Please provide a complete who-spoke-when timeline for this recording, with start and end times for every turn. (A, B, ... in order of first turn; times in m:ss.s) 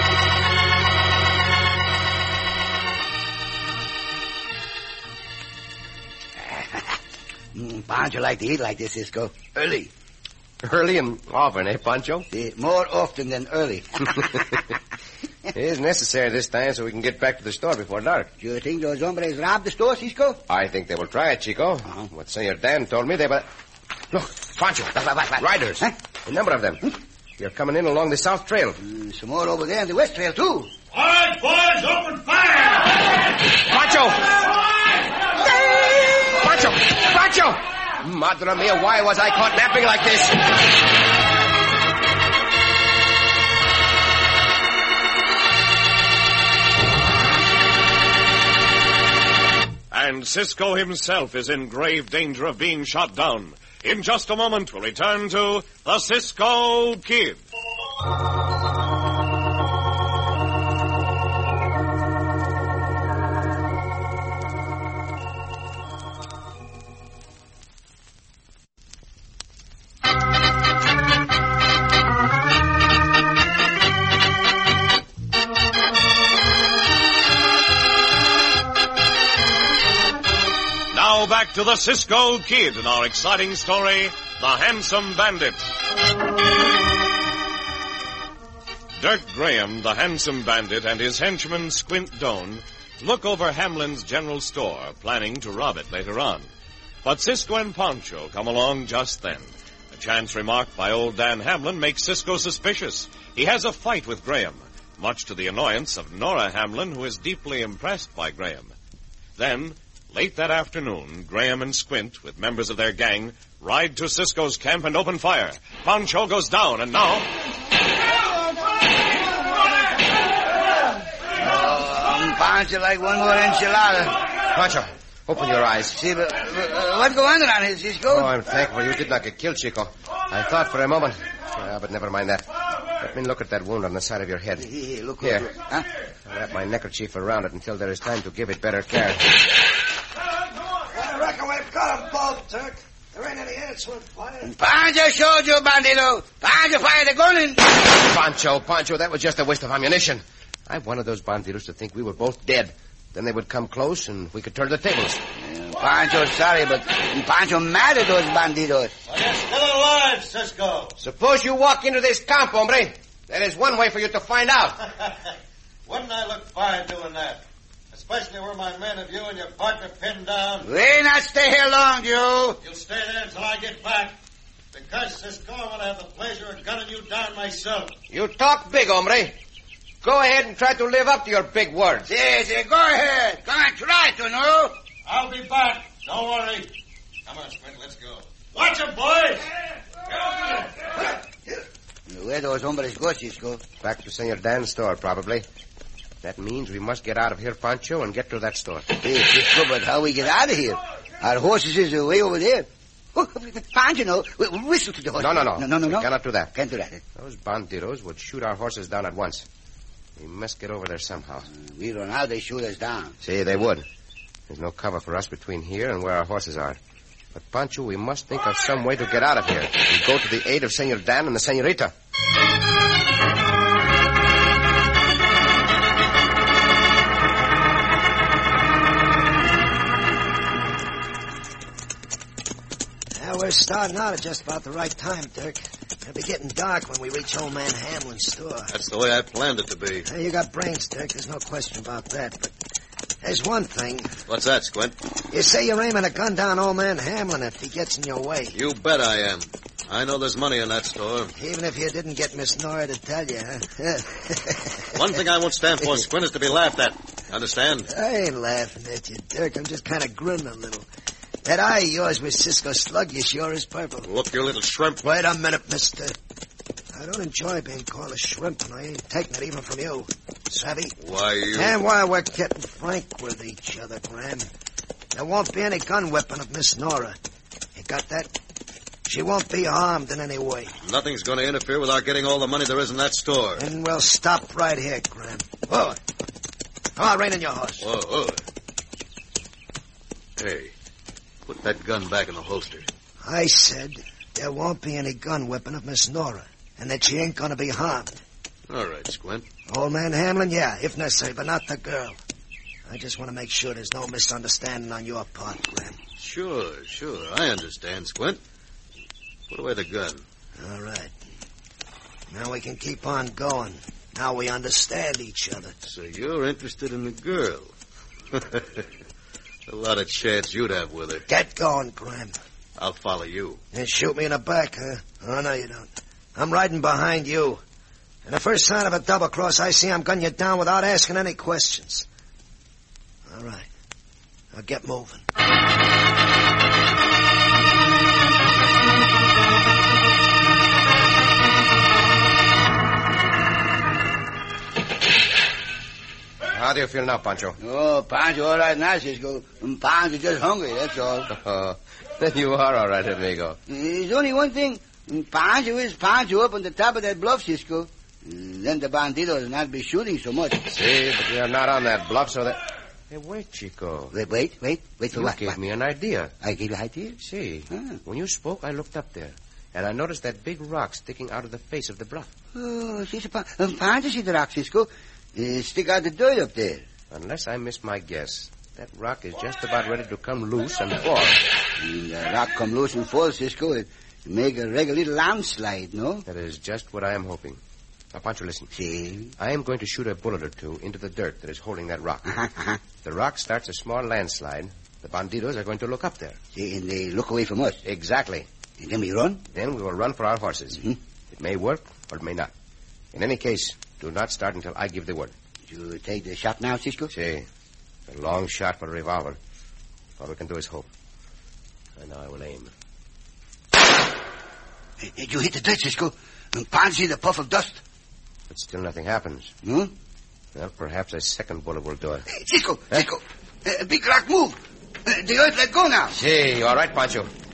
0:06.4-0:07.0 A
0:07.5-0:09.9 A
0:10.6-0:12.3 B
0:12.3-0:14.6 A
0:15.5-0:18.3 B
0:18.4-0:20.4 A
0:20.5-0:23.5 B
0:24.1-0:28.8 B
0:25.0-0:25.9 A
0:28.8-0:30.7 A
0:30.9-0:32.9 C
0:33.5-0:34.5 B
0:35.4-0:40.6 B
0:49.9-0:57.4 D
1:20.9-1:25.7 D
1:29.0-1:36.5 D
1:37.0-1:48.7 D
1:49.4-1:57.3 D
2:01.4-2:04.2 A
2:04.5-2:06.0 B
2:05.9-2:08.3 A
2:08.1-2:14.7 B
2:14.6-2:15.9 A
2:15.2-2:15.5 B
2:16.3-2:19.3 B
2:20.9-2:24.5 E
2:24.4-2:27.7 A
2:27.8-2:35.2 B
2:35.4-2:38.9 A
2:39.1-2:41.0 C
2:41.0-2:44.8 B
2:45.9-2:50.7 C
2:50.6-2:52.6 A
2:52.6-2:54.2 C
2:54.7-2:57.9 C
2:58.1-2:59.4 B
3:00.0-3:02.1 B
3:02.0-3:04.8 A
3:05.1-3:06.7 C
3:07.3-3:09.5 C
3:12.1-3:13.6 A
3:13.8-3:15.5 B
3:16.2-3:18.9 B
3:19.0-3:27.0 A
3:25.2-3:26.5 B
3:27.2-3:29.5 B
3:30.2-3:31.5 B
3:31.5-3:33.2 A
3:33.2-3:33.9 B
3:34.5-3:36.8 B
3:37.3-3:41.9 B
3:53.2-3:58.7 E
3:58.7-4:00.1 C
4:00.1-4:02.5 E
4:03.2-4:04.1 E
4:04.3-4:05.0 C
4:05.3-4:08.6 E
4:08.5-4:11.3 C
4:11.4-4:14.6 E
4:14.9-4:17.9 C
4:17.9-4:20.9 E
4:21.4-4:24.1 E
4:24.1-4:25.0 C
4:25.0-4:26.1 E
4:26.9-4:31.0 E
4:31.0-4:31.8 C
4:31.5-4:34.5 E
4:35.1-4:37.2 E
4:37.8-4:38.3 E
4:39.1-4:40.7 E
4:40.8-4:43.7 C
4:43.6-4:46.0 E
4:47.0-4:47.9 E
4:47.8-4:48.4 C
4:50.4-4:50.7 C
4:51.5-4:52.9 C
4:53.2-4:58.1 E
4:58.7-4:59.5 C
4:59.7-5:02.2 E
5:02.9-5:06.0 E
5:06.2-5:08.4 C
5:09.5-5:10.2 C
5:10.6-5:11.1 E
5:12.3-5:15.7 E
5:15.8-5:17.7 C
5:18.3-5:18.9 C
5:19.7-5:21.2 C
5:21.3-5:22.3 E
5:22.8-5:23.6 C
5:23.7-5:27.6 E
5:28.2-5:32.1 E
5:33.3-5:33.7 E
5:34.5-5:35.2 E
5:46.5-5:47.6 B
5:47.6-5:51.3 A
5:51.3-5:53.6 B
5:53.7-6:00.6 A
6:00.7-6:04.1 B
6:04.1-6:05.6 A
6:05.1-6:06.3 B
6:06.4-6:07.2 A
6:07.2-6:12.3 B
6:07.7-6:08.0 A
6:12.6-6:16.8 A
6:17.1-6:21.4 B
6:21.8-6:26.2 A
6:26.3-6:27.6 B
6:28.1-6:28.7 B
6:28.7-6:29.3 A
6:29.4-6:32.3 B
6:32.3-6:32.8 A
6:33.0-6:36.4 B
6:36.6-6:37.8 A
6:37.8-6:38.5 B
6:38.8-6:39.4 A
6:39.5-6:42.5 B
6:43.1-6:45.3 B
6:45.7-6:47.1 A
6:47.1-6:47.5 B
6:48.1-6:49.4 B
6:50.2-6:50.9 B
6:52.0-6:52.7 B
6:55.0-6:57.8 A
6:58.5-6:59.5 B
6:59.6-6:59.9 A
7:00.6-7:02.3 B
7:02.3-7:06.1 A
7:06.1-7:07.3 B